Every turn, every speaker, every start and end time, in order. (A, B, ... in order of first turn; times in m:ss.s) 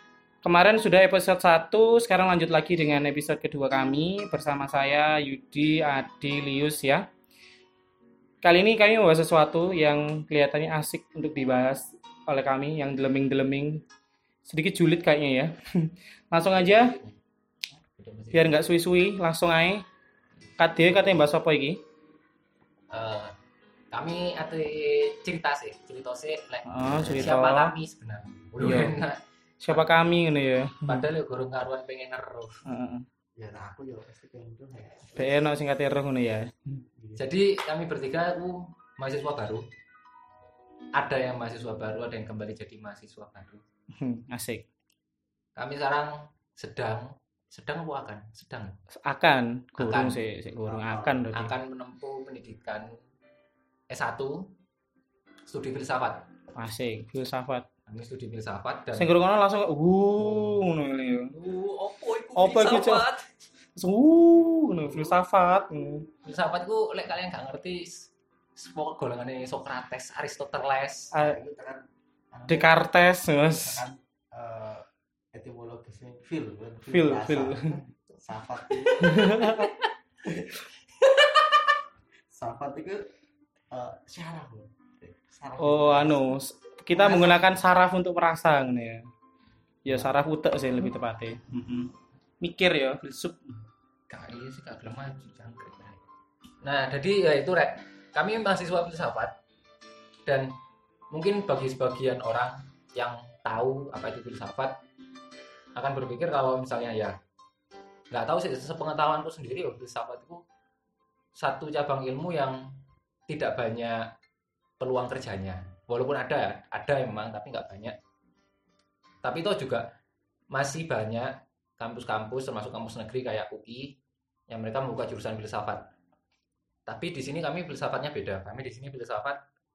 0:00.4-0:07.0 A
0:08.4-0:13.8 A
0:14.4-0:16.9 A
0:16.5-0:17.2 B
0:17.8-0:18.5 B
0:18.3-0:19.8 A
0:20.6-0:21.8 A
0:22.9-0:23.3 B
0:23.9-0:29.9 B
0:26.6-0:27.7 A
0:27.0-0:27.2 C
0:28.6-0:29.0 A
0:29.6-0:31.0 A
0:30.9-0:32.6 B
0:32.6-0:33.0 A
0:33.4-0:35.4 C
0:35.1-0:36.8 A
0:37.0-0:37.3 C
0:37.2-0:39.6 B
0:41.0-0:43.6 B
0:43.9-0:44.6 A
0:45.6-0:48.8 B
0:49.0-0:51.5 A
0:49.8-0:50.2 B
0:50.6-0:51.3 C
0:51.3-0:52.9 B
0:53.9-0:54.4 B
0:55.5-0:56.2 B
0:56.5-0:57.6 A
0:57.9-0:59.1 B
0:59.0-1:01.3 A
1:00.3-1:00.5 C
1:01.3-1:03.2 B
1:02.4-1:03.1 A
1:03.8-1:06.1 A
1:06.2-1:11.1 B
1:11.1-1:11.4 A
1:11.2-1:12.8 C
1:12.5-1:13.8 A
1:13.5-1:19.6 C
1:16.9-1:17.7 A
1:19.0-1:19.7 A
1:22.3-1:23.0 C
1:23.7-1:26.2 C
1:25.6-1:29.0 A
1:27.0-1:27.4 B
1:29.8-1:33.6 A
1:29.9-1:30.2 C
1:34.1-1:36.0 B
1:36.6-1:39.3 B
1:40.2-1:40.5 B
1:41.1-1:44.7 B
1:45.8-1:47.1 B
1:48.1-1:50.4 B
1:51.4-1:52.7 B
1:53.3-1:54.0 B
1:54.8-1:57.9 B
1:59.2-1:59.8 B
2:00.5-2:03.9 B
2:04.5-2:05.9 B
2:06.9-2:09.4 B